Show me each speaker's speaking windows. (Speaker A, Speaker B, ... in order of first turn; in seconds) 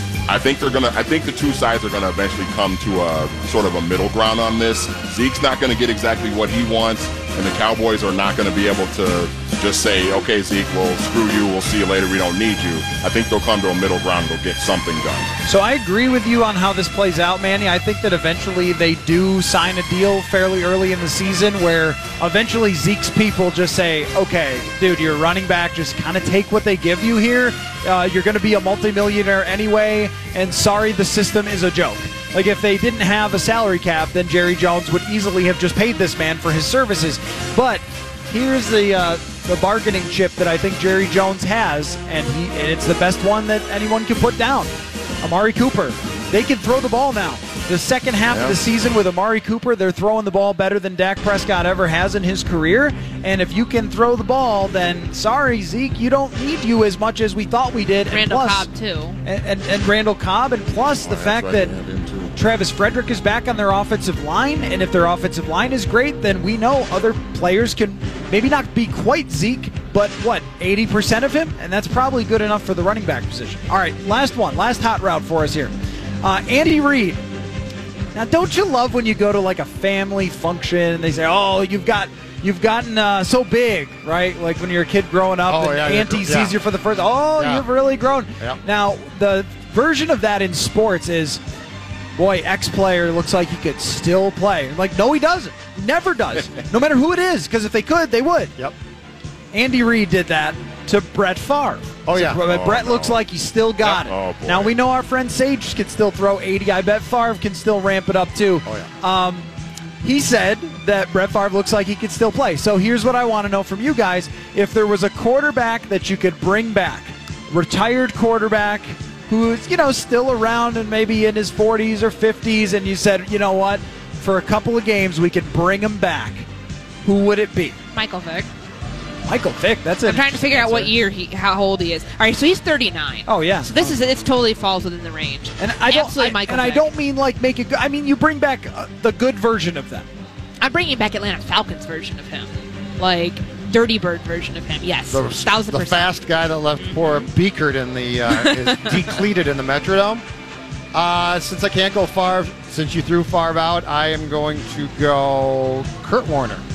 Speaker A: 0.3-15.3, 48.3-48.6, 61.0-62.3, 102.4-103.2, 103.8-104.8
Speaker B: 15.5-44.7, 45.2-58.7, 59.2-61.7, 62.4-75.7, 76.2-77.2, 78.1-91.4, 92.2-98.5, 99.5-109.5, 110.0-126.5, 127.0-127.8, 129.3-130.9, 133.3-134.0, 135.6-140.1
Speaker C: 58.1-59.2, 127.9-128.5, 130.1-136.9, 140.6-146.2, 146.8-147.2, 148.3-149.2
Speaker D: 85.5-86.6, 87.4-87.7, 102.1-102.4, 108.7-108.9, 145.1-150.2, 150.9-156.6